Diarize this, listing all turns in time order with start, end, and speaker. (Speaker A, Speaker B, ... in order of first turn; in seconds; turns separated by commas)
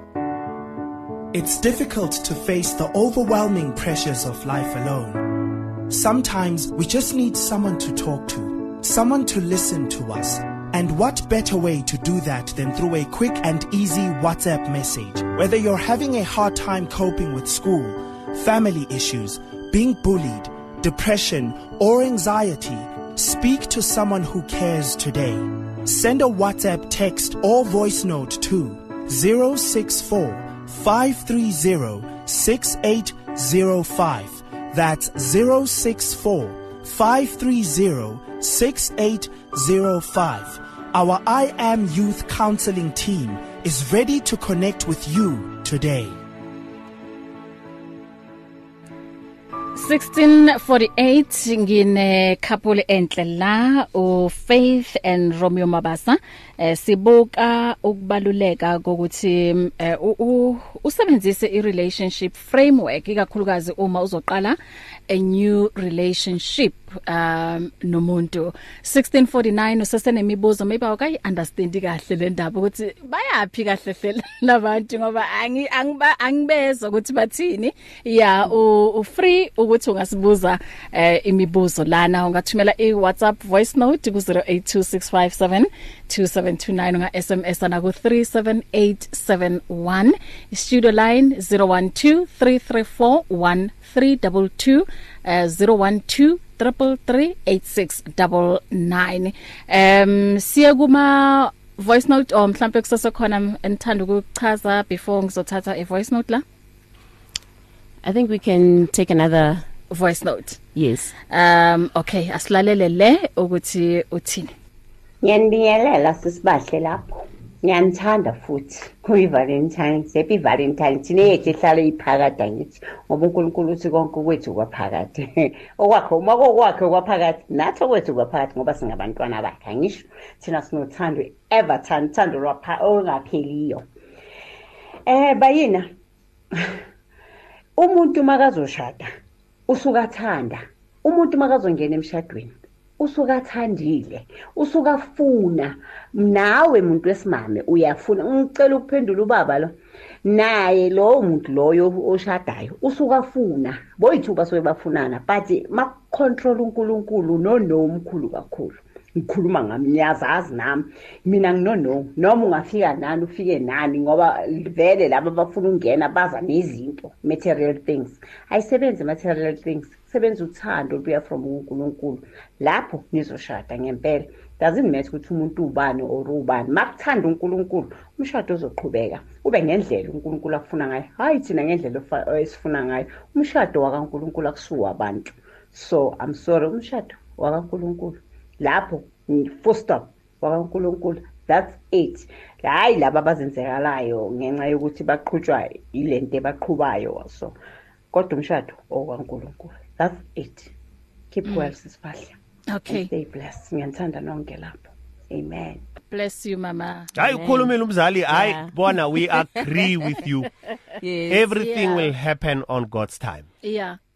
Speaker A: 1.3-46.2, Speaker B: 49.8-64.6, Speaker B: 65.1-106.4, Speaker C: 108.0-109.7, Speaker B: 109.9-110.6, Speaker C: 110.8-111.1, Speaker B: 111.3-114.5, Speaker D: 115.2-133.9, Speaker D: 135.1-135.9, Speaker D: 137.8-139.1, Speaker D: 139.7-197.6, Speaker D: 198.1-200.7, Speaker D: 201.3-202.4, Speaker B: 201.4-201.7, Speaker B: 202.7-203.1, Speaker D: 202.9-205.8, Speaker B: 206.1-207.1, Speaker E: 207.2-210.5, Speaker C: 207.2-207.7, Speaker C: 208.3-208.7, Speaker C: 209.3-209.7, Speaker C: 211.0-211.5, Speaker E: 211.3-213.5, Speaker B: 211.6-212.1, Speaker B: 213.6-214.0